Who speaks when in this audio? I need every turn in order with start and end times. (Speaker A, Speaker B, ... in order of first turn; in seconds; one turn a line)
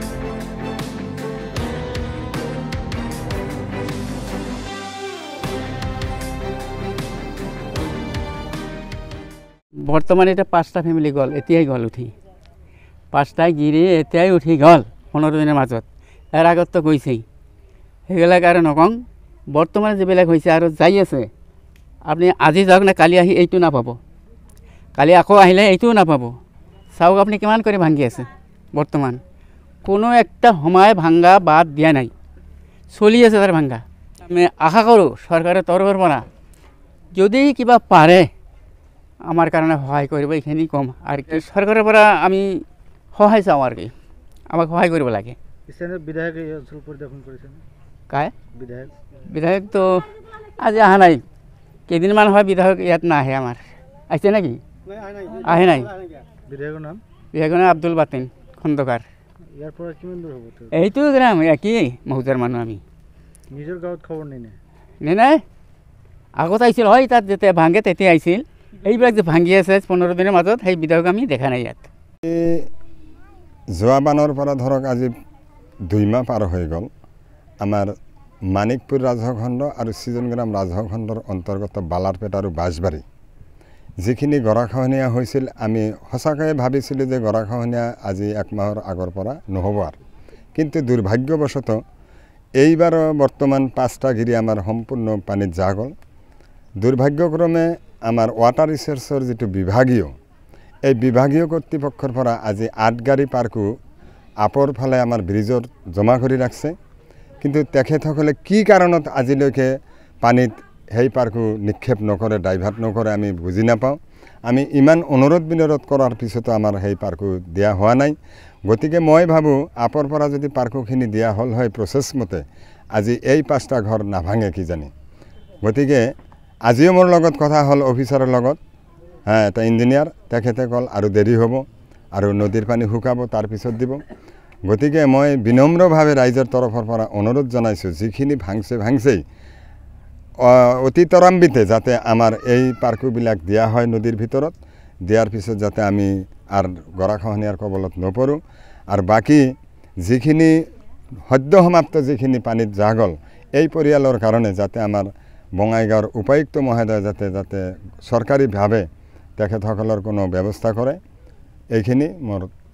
Speaker A: 9.8-12.1
Speaker A: 13.1-17.2
Speaker A: 18.1-19.0
Speaker A: 19.5-21.3
Speaker A: 22.1-24.0
Speaker A: 25.0-26.3
Speaker A: 26.9-29.2
Speaker A: 29.8-32.1
Speaker A: 32.9-36.2
Speaker A: 37.1-38.3
Speaker A: 39.3-43.9
Speaker A: 44.5-45.4
Speaker B: 45.7-47.6
Speaker B: 48.5-48.9
Speaker A: 49.2-50.0
Speaker A: 50.6-51.2
Speaker A: 51.9-54.6
Speaker A: 55.3-55.9
Speaker B: 56.5-57.0
Speaker A: 57.3-59.0
Speaker B: 59.6-60.8
Speaker A: 60.7-62.8
Speaker B: 63.5-64.6
Speaker A: 65.0-65.4
Speaker A: 66.4-71.9
Speaker C: 72.2-72.7
Speaker C: 73.8-75.1
Speaker C: 75.9-76.9
Speaker C: 77.6-77.9
Speaker C: 78.5-83.0
Speaker C: 84.0-90.0
Speaker C: 90.5-91.8
Speaker C: 92.6-95.9
Speaker C: 96.8-100.1
Speaker C: 100.9-103.7
Speaker C: 104.4-106.8
Speaker C: 107.4-118.2
Speaker C: 118.7-124.9
Speaker C: 125.6-126.1
Speaker C: 126.7-128.6
Speaker C: 129.3-134.0
Speaker C: 134.7-139.2
Speaker C: 140.4-144.6
Speaker C: 145.1-149.5
Speaker C: 150.0-150.6
Speaker C: 151.2-158.8
Speaker C: 159.4-161.0
Speaker C: 161.7-162.5